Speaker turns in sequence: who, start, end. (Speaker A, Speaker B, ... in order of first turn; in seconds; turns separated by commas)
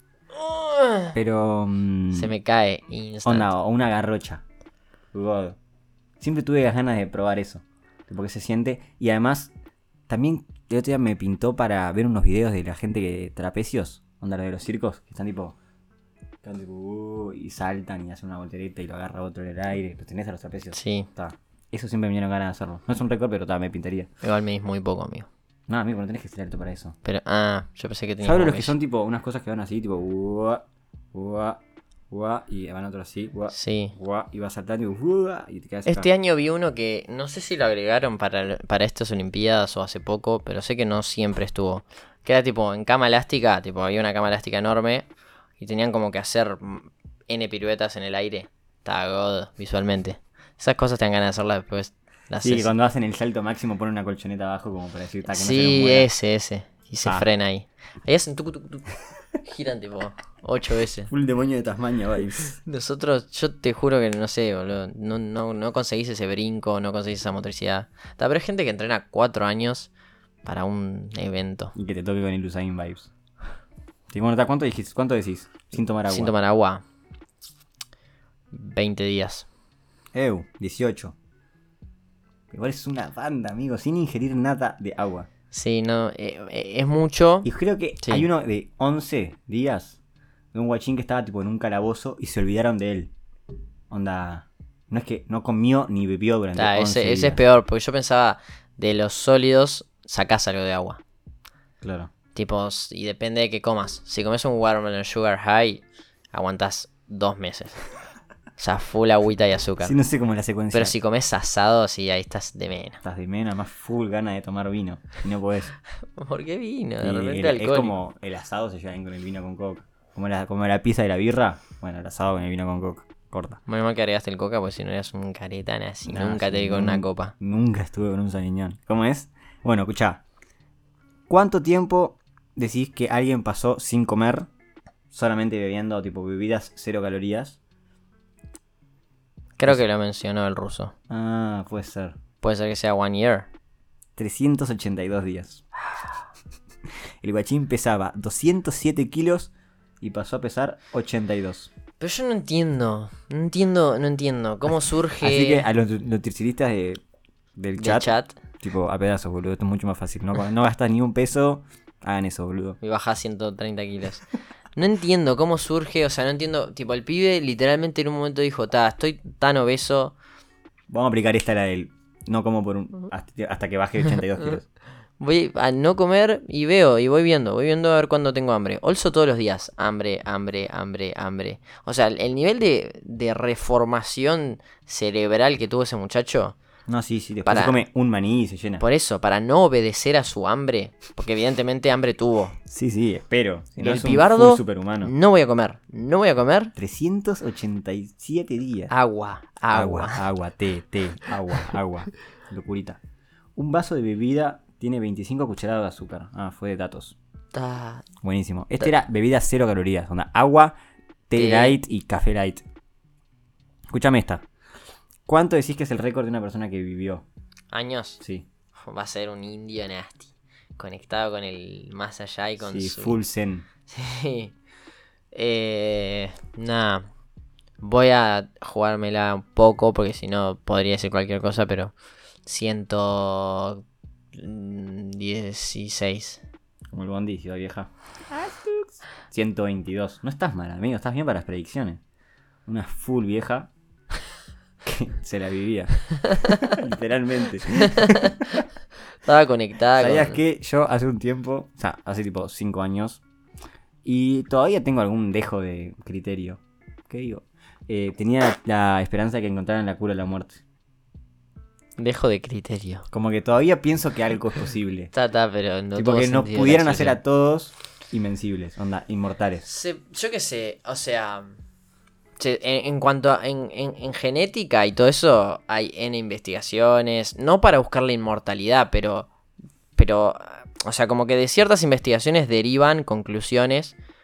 Speaker A: 0.3-1.1, Speaker B: 1.1-2.3, Speaker A: 2.1-3.5, Speaker B: 3.2-4.4, Speaker B: 5.1-5.6, Speaker B: 6.2-9.5, Speaker B: 10.1-15.6, Speaker B: 16.4-24.1, Speaker A: 20.7-21.1, Speaker A: 24.2-25.3, Speaker B: 25.7-26.9, Speaker A: 27.0-28.7, Speaker B: 28.2-36.1, Speaker A: 33.5-33.9, Speaker A: 35.9-52.7, Speaker B: 52.4-56.1, Speaker A: 55.3-61.1, Speaker B: 61.1-62.6, Speaker A: 62.6-69.9, Speaker A: 70.4-71.7, Speaker B: 71.7-73.1, Speaker B: 74.1-76.3, Speaker A: 76.1-76.8, Speaker A: 78.5-79.5, Speaker B: 80.1-81.1, Speaker B: 82.5-85.3, Speaker A: 85.5-87.5, Speaker B: 87.4-90.0, Speaker A: 88.0-88.3, Speaker B: 90.5-93.1, Speaker B: 93.9-97.4, Speaker A: 96.5-101.0, Speaker B: 101.8-102.1, Speaker A: 102.3-107.8, Speaker A: 108.6-109.9, Speaker B: 109.8-110.9, Speaker A: 110.7-113.0, Speaker B: 113.0-115.7, Speaker A: 116.2-117.9, Speaker B: 117.0-123.6, Speaker A: 123.7-127.3, Speaker B: 126.0-130.2, Speaker B: 131.3-134.5, Speaker B: 135.1-137.6, Speaker A: 139.6-140.9, Speaker B: 141.1-142.2, Speaker A: 142.4-143.5, Speaker B: 144.2-145.6, Speaker B: 147.2-151.7, Speaker A: 152.0-155.6, Speaker B: 155.2-157.0, Speaker B: 157.6-162.8, Speaker A: 157.8-158.3, Speaker A: 162.8-164.2, Speaker A: 164.8-170.1, Speaker B: 170.9-174.7, Speaker A: 175.2-186.6, Speaker B: 186.9-188.8, Speaker A: 187.5-187.8, Speaker A: 188.8-192.6, Speaker B: 192.6-195.1, Speaker A: 193.8-196.7, Speaker B: 196.8-198.9, Speaker A: 198.9-200.2, Speaker B: 199.7-203.0, Speaker B: 203.6-207.2, Speaker A: 207.5-208.1, Speaker B: 208.2-210.8, Speaker B: 211.3-212.6, Speaker A: 211.3-211.8, Speaker B: 213.9-214.4, Speaker B: 215.2-217.2, Speaker A: 217.7-218.2, Speaker B: 218.2-218.4, Speaker A: 218.8-223.2, Speaker B: 222.6-223.6, Speaker A: 223.9-224.5, Speaker A: 225.3-227.1, Speaker A: 227.8-231.9, Speaker A: 232.4-233.8, Speaker A: 234.3-236.4, Speaker B: 236.9-242.0, Speaker B: 242.7-243.7, Speaker B: 244.8-248.3, Speaker A: 246.3-246.8, Speaker A: 247.8-248.6, Speaker A: 249.2-250.4, Speaker B: 250.0-253.2, Speaker B: 254.0-260.6, Speaker A: 262.0-263.1, Speaker B: 263.1-265.1, Speaker A: 265.1-267.2, Speaker B: 265.9-269.6, Speaker A: 269.6-271.5, Speaker A: 272.4-279.3, Speaker A: 279.9-283.9